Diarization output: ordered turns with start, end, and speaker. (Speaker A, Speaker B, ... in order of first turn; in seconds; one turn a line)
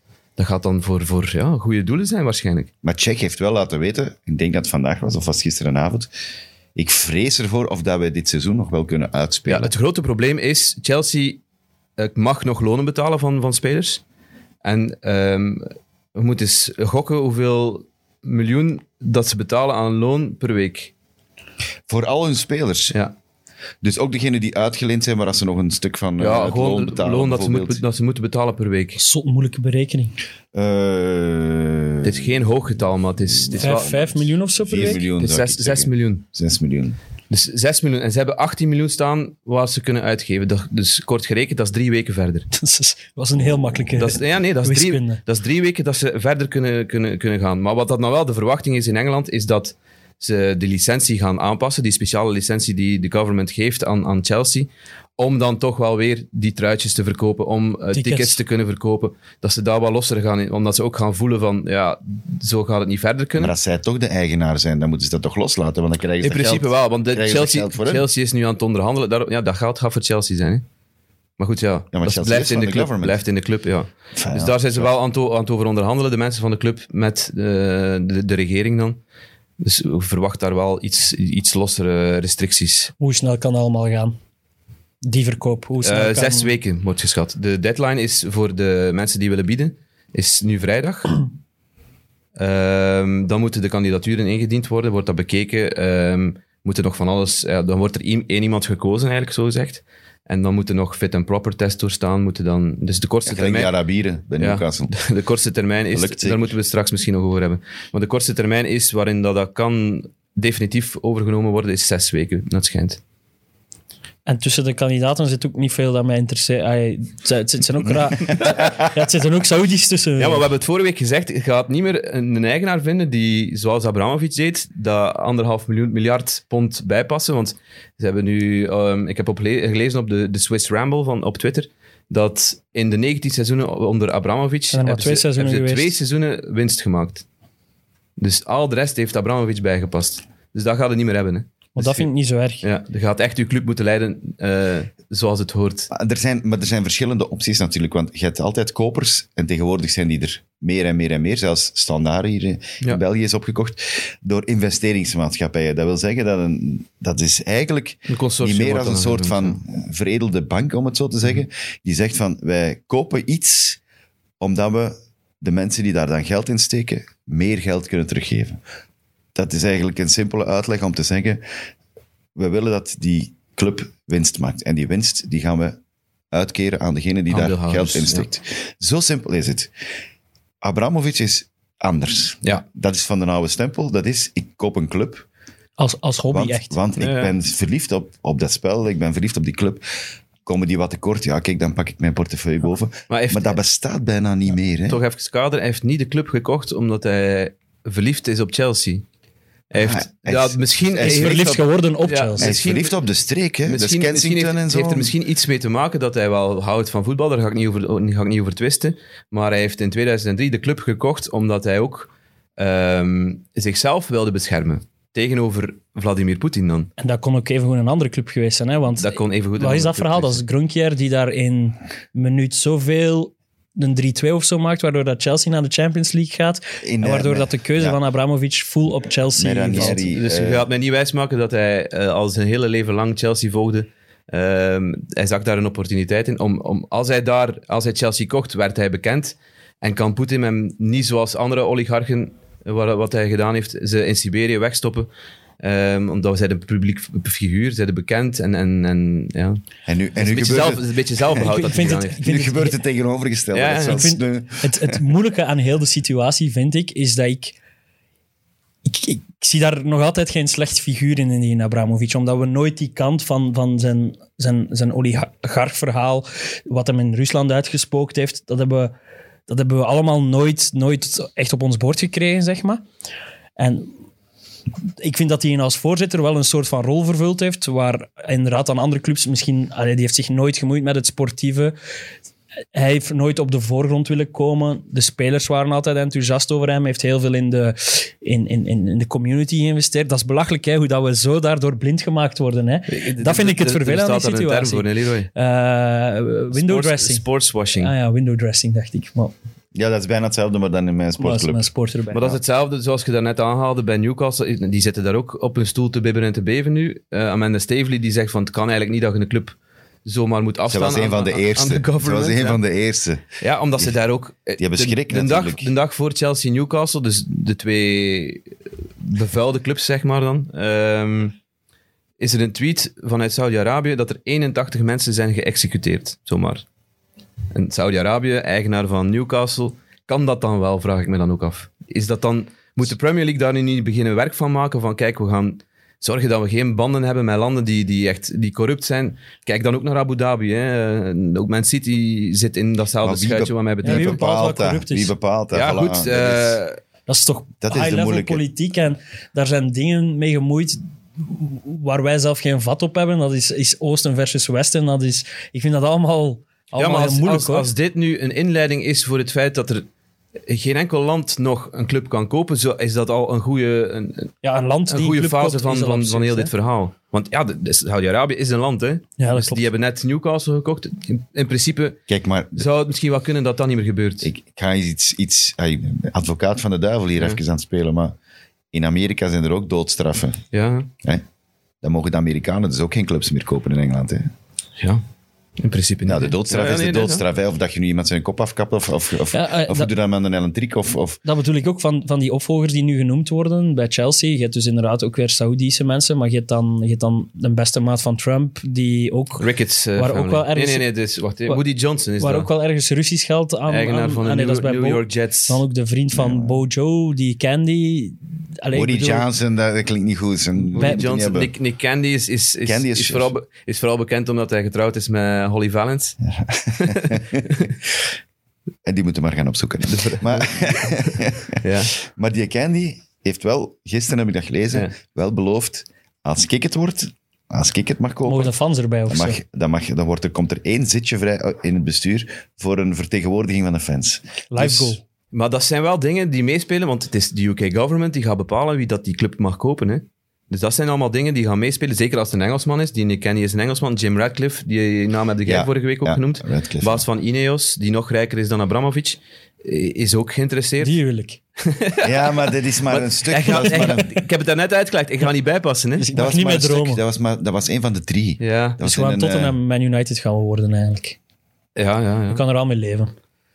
Speaker A: 0.4-2.7
Speaker B: 2.8-6.1
Speaker B: 6.7-9.7
Speaker A: 9.5-11.4
Speaker A: 12.0-14.0
Speaker A: 14.6-20.9
Speaker B: 21.9-22.9
Speaker B: 23.8-27.8
Speaker A: 26.2-29.0
Speaker C: 29.0-30.1
Speaker B: 30.5-32.5
Speaker A: 32.0-34.2
Speaker B: 33.4-34.0
Speaker C: 33.6-35.1
Speaker B: 34.6-37.0
Speaker A: 35.2-36.2
Speaker A: 37.3-42.5
Speaker C: 42.5-45.2
Speaker A: 44.0-63.5
Speaker C: 57.9-58.4
Speaker B: 63.4-68.1
Speaker A: 66.2-70.6
Speaker A: 71.4-79.0
Speaker B: 71.9-73.2
Speaker B: 74.2-74.9
Speaker A: 79.6-82.9
Speaker C: 83.0-84.2
Speaker C: 85.0-86.5
Speaker A: 85.8-91.2
Speaker A: 92.4-103.7
Speaker B: 103.3-104.9
Speaker A: 104.4-113.0
Speaker B: 105.9-106.5
Speaker C: 114.2-120.5
Speaker A: 120.2-137.2
Speaker C: 134.7-135.9
Speaker A: 138.2-142.1
Speaker C: 141.8-142.6
Speaker A: 142.6-145.9
Speaker B: 145.9-163.8
Speaker A: 158.1-159.6
Speaker B: 164.4-168.6
Speaker B: 169.3-171.4
Speaker B: 172.3-175.8
Speaker B: 176.3-179.7
Speaker A: 177.3-178.2
Speaker B: 180.6-185.2
Speaker C: 185.8-186.8
Speaker B: 186.3-189.8
Speaker A: 187.0-187.3
Speaker B: 190.4-195.0
Speaker A: 193.1-193.6
Speaker A: 194.9-199.0
Speaker A: 199.7-202.9
Speaker B: 199.8-201.6
Speaker C: 201.0-202.5
Speaker B: 202.4-205.2
Speaker A: 203.7-216.9
Speaker C: 217.0-230.0
Speaker A: 219.0-220.4
Speaker B: 226.8-228.0
Speaker B: 229.3-230.7
Speaker A: 229.7-245.1
Speaker A: 245.6-249.6
Speaker B: 249.8-251.6
Speaker A: 250.2-252.2
Speaker C: 251.4-252.8
Speaker B: 252.2-255.0
Speaker A: 253.5-254.1
Speaker C: 253.9-257.6
Speaker C: 258.8-268.9
Speaker C: 269.5-272.8
Speaker C: 273.6-273.9
Speaker C: 275.0-281.7
Speaker C: 282.7-297.2
Speaker A: 292.9-295.3
Speaker A: 296.5-297.9
Speaker C: 297.8-299.3
Speaker B: 299.7-301.7
Speaker C: 301.2-302.3
Speaker A: 302.1-312.6
Speaker B: 310.7-313.2
Speaker A: 313.4-318.5
Speaker B: 314.6-315.7
Speaker A: 319.0-321.3
Speaker A: 322.2-326.6
Speaker A: 327.5-344.2
Speaker B: 343.0-346.6
Speaker C: 343.8-345.1
Speaker A: 345.5-346.8
Speaker C: 347.1-357.7
Speaker B: 347.6-348.4
Speaker A: 356.8-359.9
Speaker A: 360.4-364.3
Speaker C: 364.4-366.5
Speaker A: 364.9-372.0
Speaker C: 369.2-369.6
Speaker B: 372.1-372.6
Speaker A: 372.6-374.3
Speaker B: 374.2-378.1
Speaker B: 378.7-380.4
Speaker A: 380.5-380.9
Speaker B: 381.8-384.3
Speaker A: 384.8-385.0
Speaker A: 385.6-387.2
Speaker B: 386.0-391.2
Speaker C: 389.3-389.9
Speaker C: 391.2-399.4
Speaker A: 399.4-402.5
Speaker C: 400.0-400.9
Speaker C: 402.2-409.3
Speaker A: 403.7-405.6
Speaker B: 406.1-406.6
Speaker B: 408.7-411.5
Speaker A: 410.7-416.2
Speaker C: 410.7-411.0
Speaker B: 412.6-413.3
Speaker B: 416.2-417.9
Speaker A: 416.8-417.7
Speaker B: 418.9-428.5
Speaker A: 419.9-421.9
Speaker C: 428.2-429.4
Speaker B: 429.1-434.9
Speaker C: 434.5-435.0
Speaker A: 435.3-451.0
Speaker B: 445.4-447.0
Speaker C: 450.8-451.4
Speaker A: 451.6-456.1
Speaker B: 452.0-454.1
Speaker C: 453.5-454.2
Speaker C: 456.0-457.0
Speaker B: 456.1-459.6
Speaker A: 458.4-458.8
Speaker C: 458.8-461.2
Speaker A: 461.8-462.4
Speaker C: 462.3-463.1